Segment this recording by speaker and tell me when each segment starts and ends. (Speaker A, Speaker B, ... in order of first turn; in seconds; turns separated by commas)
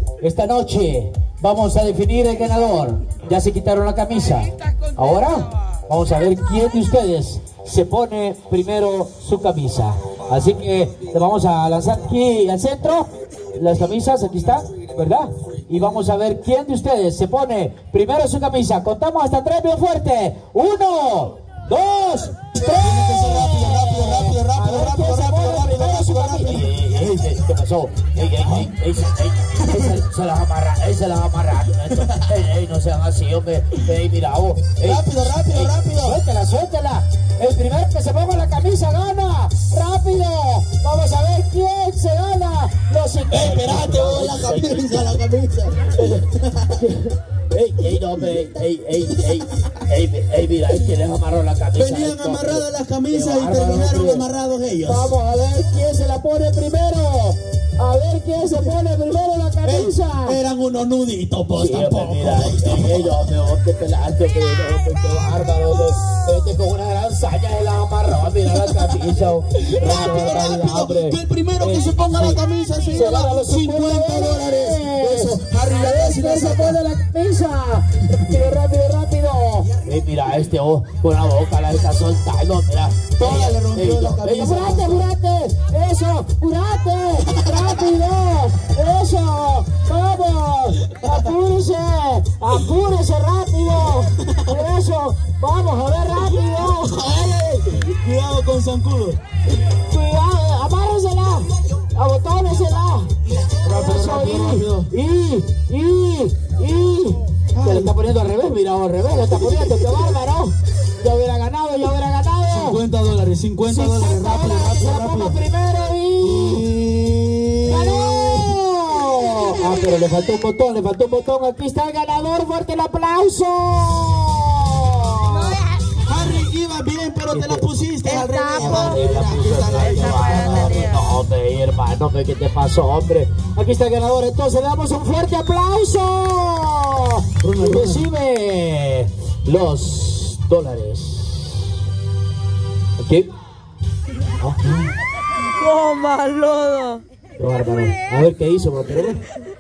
Speaker A: 0.2-45.1, Speaker B: 22.8-26.8, Speaker B: 28.4-28.7, Speaker B: 29.6-29.9, Speaker B: 31.9-32.2, Speaker B: 34.8-36.2, Speaker B: 43.3-46.9, Speaker A: 46.8-54.2, Speaker B: 51.7-55.2, Speaker A: 54.8-60.4, Speaker B: 59.6-63.1, Speaker A: 61.5-72.4, Speaker B: 68.5-68.9, Speaker B: 69.5-76.8, Speaker A: 72.9-97.0, Speaker B: 83.2-85.1, Speaker B: 96.3-99.2, Speaker A: 99.9-103.1, Speaker B: 103.5-104.9, Speaker A: 103.6-112.8, Speaker B: 107.5-107.9, Speaker B: 109.5-110.0, Speaker B: 112.5-115.4, Speaker A: 113.6-116.6, Speaker B: 116.2-118.5, Speaker A: 117.7-125.6, Speaker C: 125.3-125.9, Speaker B: 126.0-130.9, Speaker A: 127.3-127.7, Speaker C: 128.0-129.0, Speaker A: 128.6-141.7, Speaker C: 129.7-131.0, Speaker B: 137.4-138.1, Speaker A: 143.0-143.3, Speaker A: 144.4-144.8, Speaker C: 145.6-147.0, Speaker A: 147.4-149.2